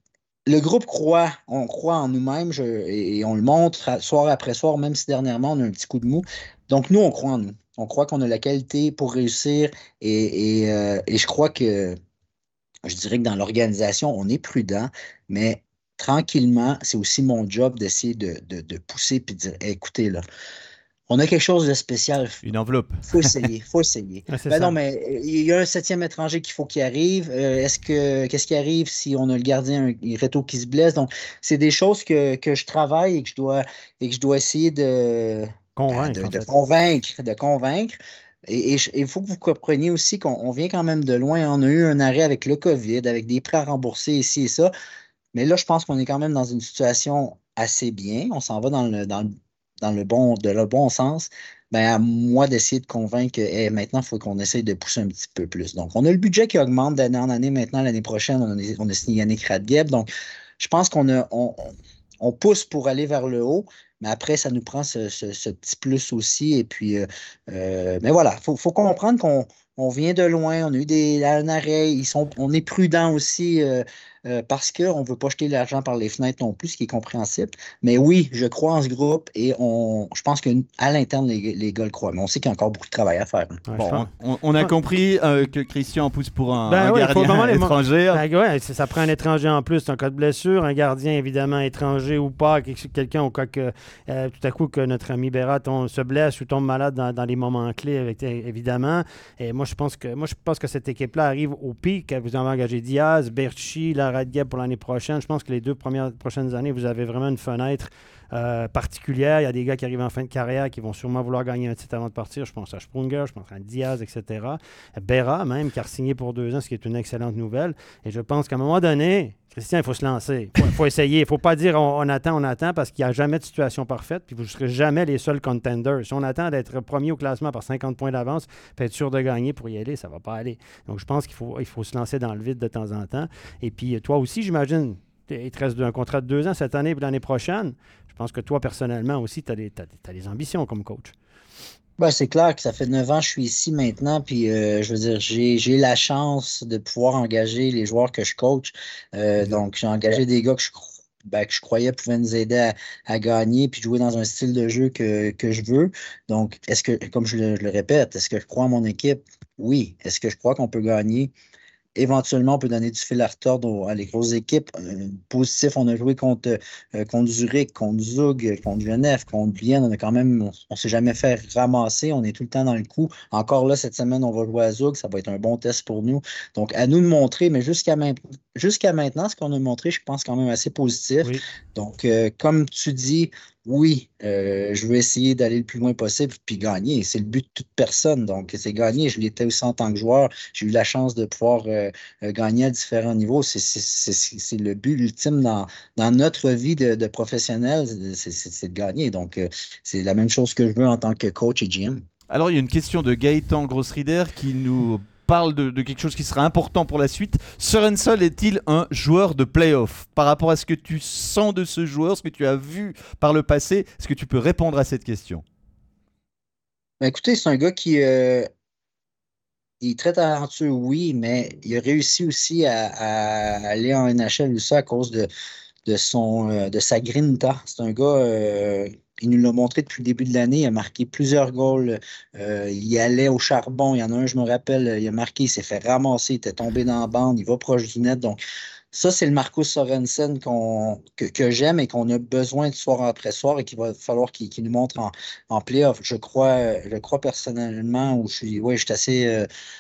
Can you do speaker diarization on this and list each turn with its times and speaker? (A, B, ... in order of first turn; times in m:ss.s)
0:00.5-0:12.0 A
0:12.8-0:20.2 A
0:21.1-0:22.4 A
0:22.4-0:23.4 B
0:23.0-0:38.0 A
0:24.3-0:24.8 C
0:35.8-0:36.5 C
0:38.5-0:44.7 A
0:45.3-0:49.3 A
0:49.8-1:00.1 A
1:00.6-1:23.6 A
1:23.7-1:24.1 C
1:23.8-1:28.2 B
1:26.7-2:21.1 C
2:22.0-2:41.3 A
2:42.0-3:22.0 A
3:22.3-3:35.4 B
3:37.0-3:38.5 A
3:39.8-3:45.3 A
3:45.9-3:58.4 A
3:58.9-4:09.5 A